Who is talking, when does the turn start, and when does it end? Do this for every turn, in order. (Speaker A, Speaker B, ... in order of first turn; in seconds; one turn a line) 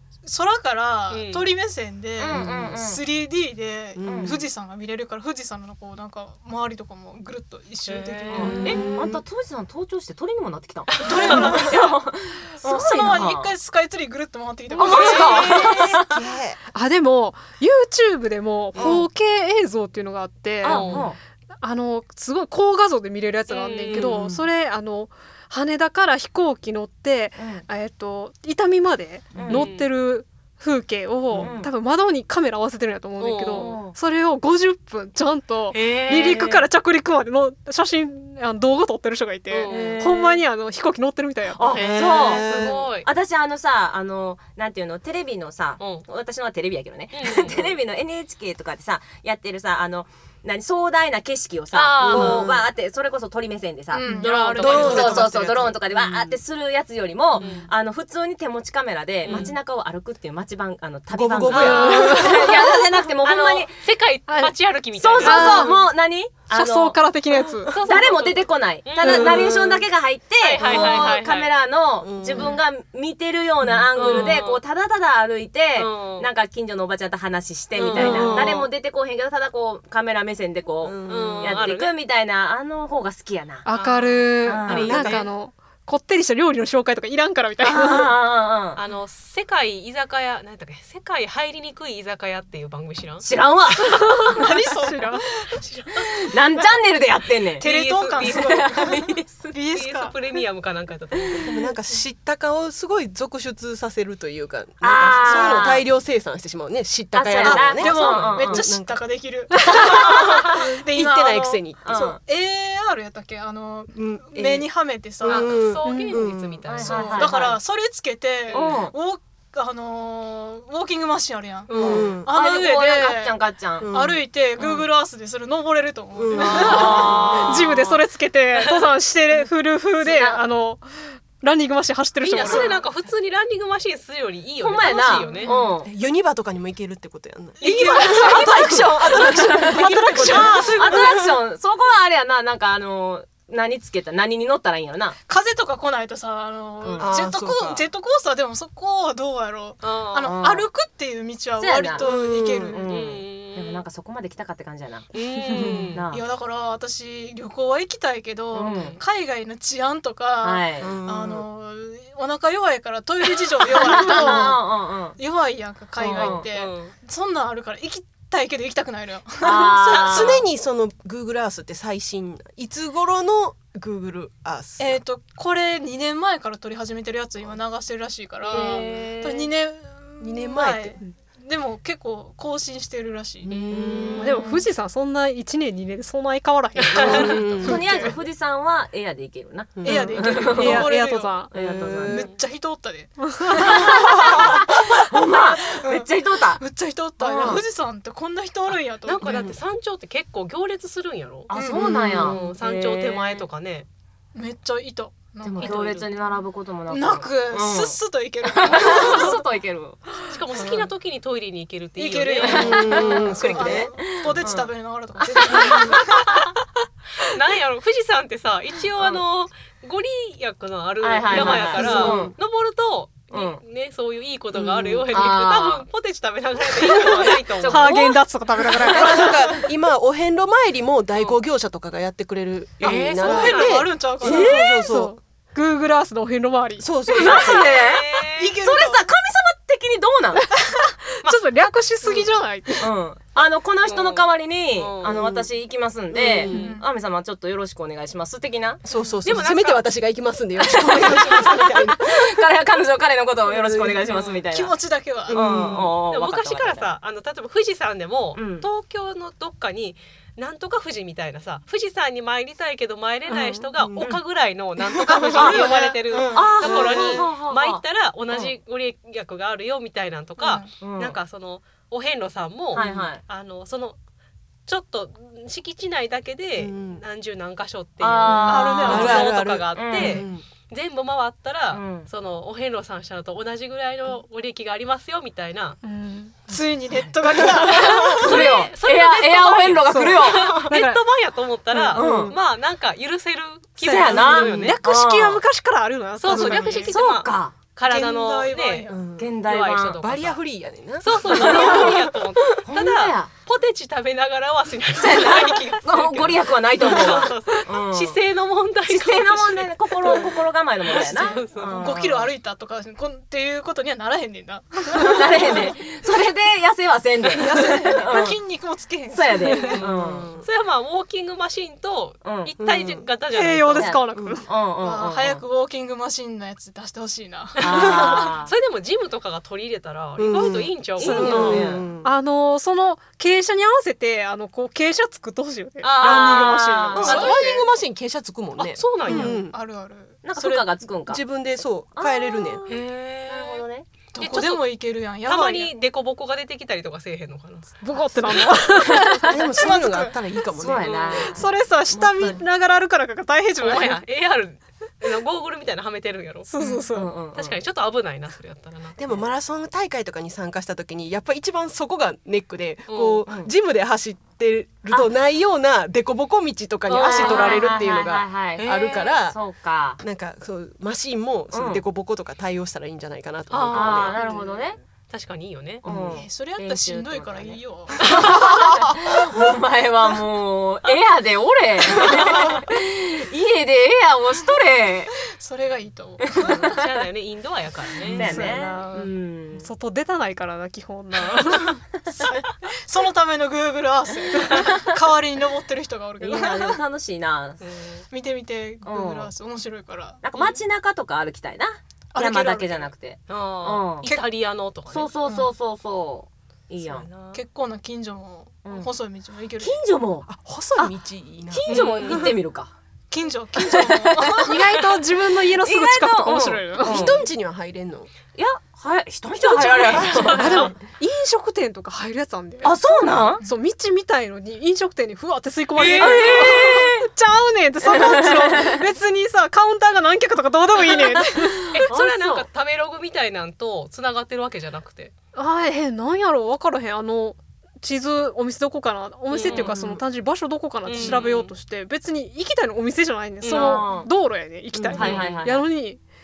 Speaker A: 0.2-8.8
Speaker B: 1.1-1.5
Speaker C: 2.2-3.0
Speaker D: 2.3-2.8
Speaker D: 4.0-4.4
Speaker C: 4.0-4.4
Speaker B: 7.9-9.0
Speaker C: 8.3-13.5
Speaker D: 8.3-9.2
Speaker B: 10.9-11.3
Speaker A: 11.0-15.8
Speaker C: 14.7-16.2
Speaker B: 14.8-15.9
Speaker E: 15.0-15.2
Speaker D: 15.5-16.6
Speaker E: 16.7-41.7
Speaker C: 18.7-19.0
Speaker B: 18.8-19.0
Speaker C: 20.6-21.2
Speaker B: 20.6-21.1
Speaker B: 23.5-24.2
Speaker D: 23.9-24.4
Speaker C: 27.4-27.6
Speaker C: 29.3-29.7
Speaker B: 29.4-29.9
Speaker C: 31.4-31.7
Speaker B: 33.2-33.7
Speaker C: 33.5-34.0
Speaker B: 35.7-36.4
Speaker C: 36.1-36.6
Speaker B: 39.5-40.0
Speaker C: 39.7-40.5
Speaker C: 41.5-54.1
Speaker B: 41.7-43.1
Speaker D: 41.8-42.4
Speaker B: 45.8-46.0
Speaker B: 47.1-47.8
Speaker B: 51.7-52.6
Speaker A: 53.9-55.7
Speaker B: 54.1-56.4
Speaker C: 54.6-63.8
Speaker B: 57.3-57.7
Speaker B: 59.2-59.6
Speaker D: 61.1-62.2
Speaker B: 61.5-65.7
Speaker E: 61.6-62.5
Speaker E: 64.3-64.5
Speaker C: 64.9-67.0
Speaker E: 65.2-65.9
Speaker E: 66.5-67.7
Speaker B: 67.7-69.8
Speaker C: 67.8-83.7
Speaker E: 69.0-69.5
Speaker B: 70.4-71.5
Speaker D: 72.0-72.5
Speaker B: 72.3-72.6
Speaker B: 73.6-74.6
Speaker B: 75.8-76.3
Speaker B: 77.7-78.7
Speaker E: 77.9-78.6
Speaker D: 80.8-81.6
Speaker B: 81.0-81.9
Speaker E: 83.6-88.1
Speaker B: 83.7-85.3
Speaker C: 84.5-85.2
Speaker D: 84.7-85.2
Speaker C: 87.6-88.8
Speaker B: 88.7-93.3
Speaker C: 93.2-94.4
Speaker A: 94.3-95.6
Speaker E: 94.7-95.2
Speaker B: 95.6-96.1
Speaker C: 96.1-97.6
Speaker B: 97.6-98.7
Speaker A: 97.6-100.2
Speaker C: 98.3-99.3
Speaker B: 99.3-101.5
Speaker D: 101.4-109.0
Speaker C: 104.8-105.8
Speaker C: 107.1-108.6
Speaker A: 107.4-115.5
Speaker B: 107.9-108.3
Speaker C: 109.7-110.5
Speaker E: 109.7-110.2
Speaker D: 110.8-111.9
Speaker C: 111.8-112.2
Speaker D: 113.9-114.7
Speaker D: 115.2-116.6
Speaker B: 115.2-117.6
Speaker E: 115.8-116.2
Speaker C: 116.7-117.5
Speaker A: 116.8-127.2
Speaker B: 118.5-118.8
Speaker C: 118.5-118.9
Speaker B: 121.7-122.1
Speaker D: 121.7-122.3
Speaker C: 121.8-123.9
Speaker D: 123.8-124.2
Speaker B: 124.6-124.8
Speaker D: 126.1-127.2
Speaker E: 126.3-132.8
Speaker C: 126.4-128.0
Speaker B: 127.0-127.6
Speaker C: 130.0-130.4
Speaker B: 132.2-135.5
Speaker C: 132.4-132.7
Speaker C: 134.6-135.9
Speaker D: 135.8-141.4
Speaker A: 137.6-141.0
Speaker C: 137.6-145.2
Speaker B: 140.4-141.1
Speaker A: 145.3-152.8
Speaker C: 146.8-147.1
Speaker D: 147.0-147.8
Speaker B: 149.8-150.2
Speaker C: 150.2-150.7
Speaker C: 151.6-152.1
Speaker D: 152.0-152.8
Speaker B: 152.2-153.8
Speaker C: 152.6-155.1
Speaker B: 155.1-156.1
Speaker D: 155.5-155.9
Speaker C: 155.9-156.2
Speaker A: 156.1-170.4
Speaker C: 158.5-159.0
Speaker C: 160.4-160.9
Speaker D: 160.8-161.4
Speaker C: 163.7-165.2
Speaker B: 166.0-166.9
Speaker C: 166.1-166.5
Speaker C: 169.4-170.4
Speaker D: 169.5-175.0
Speaker B: 169.8-170.4
Speaker A: 174.8-183.5
Speaker C: 178.5-179.5
Speaker B: 178.5-179.0
Speaker D: 180.2-181.0
Speaker D: 183.4-184.3
Speaker B: 183.5-184.4
Speaker C: 183.9-184.2
Speaker E: 184.2-188.2
Speaker B: 186.8-187.3
Speaker D: 186.9-187.8
Speaker A: 187.2-187.5
Speaker C: 187.6-190.9
Speaker D: 189.8-190.4
Speaker A: 189.8-191.4
Speaker E: 190.0-191.5
Speaker C: 191.5-192.2
Speaker D: 191.5-192.2
Speaker A: 192.0-199.4
Speaker E: 193.2-193.7
Speaker C: 193.7-196.6
Speaker C: 197.2-197.6
Speaker B: 199.0-201.5
Speaker D: 199.2-199.6
Speaker C: 201.5-203.5
Speaker A: 201.5-202.0
Speaker D: 201.7-202.3
Speaker B: 202.1-203.9
Speaker A: 204.3-206.2
Speaker C: 205.4-210.0
Speaker B: 205.6-206.1
Speaker A: 206.9-209.4
Speaker B: 208.7-209.3
Speaker B: 210.3-212.8
Speaker A: 212.0-216.4
Speaker C: 212.4-216.1
Speaker D: 212.5-213.9
Speaker B: 217.2-228.0
Speaker C: 221.0-222.3
Speaker D: 221.3-222.3
Speaker C: 223.3-223.6
Speaker C: 225.1-225.8
Speaker C: 227.6-228.2
Speaker E: 227.6-229.5
Speaker D: 228.8-235.2
Speaker B: 232.8-233.9
Speaker A: 233.2-234.5
Speaker C: 234.2-234.8
Speaker E: 234.3-236.9
Speaker D: 236.8-237.8
Speaker C: 237.1-240.5
Speaker B: 237.2-238.5
Speaker A: 238.4-239.0
Speaker E: 240.7-242.9
Speaker B: 242.0-242.3
Speaker C: 242.8-248.8
Speaker B: 243.8-245.2
Speaker D: 245.0-245.5
Speaker D: 246.1-246.7
Speaker A: 246.5-246.9
Speaker D: 248.8-252.3
Speaker B: 249.2-249.9
Speaker C: 250.6-254.7
Speaker D: 253.5-254.0
Speaker B: 254.0-254.4
Speaker A: 254.5-255.4
Speaker D: 255.3-255.9
Speaker C: 255.3-257.0
Speaker B: 256.0-274.0
Speaker C: 258.3-258.7
Speaker D: 263.8-264.1
Speaker D: 264.9-265.4
Speaker A: 265.1-267.2
Speaker C: 266.3-268.5
Speaker D: 266.7-267.0
Speaker A: 270.4-270.7
Speaker C: 270.8-271.2
Speaker C: 272.7-273.2
Speaker D: 272.8-273.1
Speaker B: 274.7-285.8
Speaker D: 276.6-277.0
Speaker C: 278.0-280.1
Speaker A: 278.3-279.3
Speaker D: 278.9-280.4
Speaker C: 281.7-282.1
Speaker E: 285.8-286.5
Speaker A: 286.5-288.5
Speaker C: 286.9-290.5
Speaker B: 287.6-294.8
Speaker E: 289.9-291.0
Speaker C: 291.9-292.3
Speaker D: 292.0-292.3
Speaker C: 293.8-295.4
Speaker E: 293.8-296.9
Speaker B: 296.2-298.9
Speaker D: 296.3-296.7
Speaker C: 296.7-297.6
Speaker A: 297.8-299.0
Speaker D: 298.9-299.4
Speaker C: 299.2-300.0
Speaker B: 299.4-300.4
Speaker D: 300.0-301.8
Speaker B: 301.0-311.9
Speaker C: 301.3-302.1
Speaker C: 302.7-303.3
Speaker C: 304.9-308.2
Speaker C: 308.8-312.3
Speaker A: 310.9-315.8
Speaker C: 314.9-318.4
Speaker A: 317.3-319.8
Speaker C: 319.1-320.3
Speaker B: 319.5-323.9
Speaker D: 320.0-320.5
Speaker C: 322.2-322.5
Speaker D: 322.6-323.1
Speaker E: 323.3-324.5
Speaker C: 323.7-325.4
Speaker D: 324.1-324.4
Speaker A: 324.8-328.3
Speaker C: 327.6-328.5
Speaker B: 327.6-331.7
Speaker D: 330.2-332.1
Speaker C: 331.0-331.8
Speaker E: 331.0-337.6
Speaker B: 335.8-337.3
Speaker C: 336.0-337.3
Speaker D: 337.0-339.6
Speaker B: 338.6-339.4
Speaker A: 339.1-340.2
Speaker C: 340.2-341.2
Speaker D: 341.1-342.7
Speaker C: 341.9-342.7
Speaker B: 342.7-343.6
Speaker C: 343.3-343.9
Speaker A: 344.1-345.7
Speaker B: 344.1-344.6
Speaker B: 345.2-347.8
Speaker E: 347.8-350.1
Speaker C: 348.9-349.4
Speaker D: 349.3-351.0
Speaker A: 349.6-349.8
Speaker C: 350.5-352.4
Speaker B: 350.8-351.4
Speaker E: 351.1-354.0
Speaker B: 353.6-356.5
Speaker E: 356.5-357.1
Speaker C: 356.9-357.6
Speaker B: 357.3-359.0
Speaker D: 359.0-369.4
Speaker B: 362.9-363.2
Speaker B: 366.9-367.9
Speaker C: 366.9-370.0
Speaker B: 368.6-369.2
Speaker D: 370.0-374.2
Speaker C: 371.5-371.8
Speaker B: 373.5-375.8
Speaker C: 373.7-374.8
Speaker C: 375.8-385.1
Speaker A: 375.9-378.1
Speaker A: 385.2-386.6
Speaker C: 386.2-386.8
Speaker B: 386.4-388.5
Speaker C: 388.1-389.7
Speaker E: 388.1-391.8
Speaker A: 392.2-396.8
Speaker C: 394.4-395.0
Speaker C: 396.2-397.6
Speaker B: 397.6-398.1
Speaker A: 398.1-400.2
Speaker C: 398.8-399.3
Speaker C: 400.2-404.1
Speaker A: 402.1-402.9
Speaker B: 403.3-405.2
Speaker C: 404.8-407.1
Speaker A: 405.2-405.5
Speaker B: 406.8-407.4
Speaker A: 407.3-409.8
Speaker C: 408.6-408.9
Speaker C: 409.6-410.9
Speaker D: 410.3-412.4
Speaker C: 411.5-412.7
Speaker B: 411.7-412.2
Speaker A: 413.1-414.5
Speaker C: 413.6-414.6
Speaker E: 414.4-417.1
Speaker C: 415.5-417.2
Speaker D: 416.8-418.1
Speaker C: 418.3-420.7
Speaker D: 419.6-420.0
Speaker B: 419.9-420.5
Speaker E: 419.9-422.7
Speaker C: 422.6-423.4
Speaker E: 423.4-431.7
Speaker C: 425.8-427.1
Speaker B: 425.8-426.7
Speaker C: 427.8-428.8
Speaker B: 431.7-435.1
Speaker C: 431.9-432.5
Speaker E: 435.3-446.0
Speaker B: 439.3-439.8
Speaker C: 439.4-440.0
Speaker B: 440.8-441.5
Speaker B: 443.4-443.9
Speaker C: 443.5-444.1
Speaker D: 444.7-445.0
Speaker C: 444.9-445.7
Speaker B: 445.0-445.4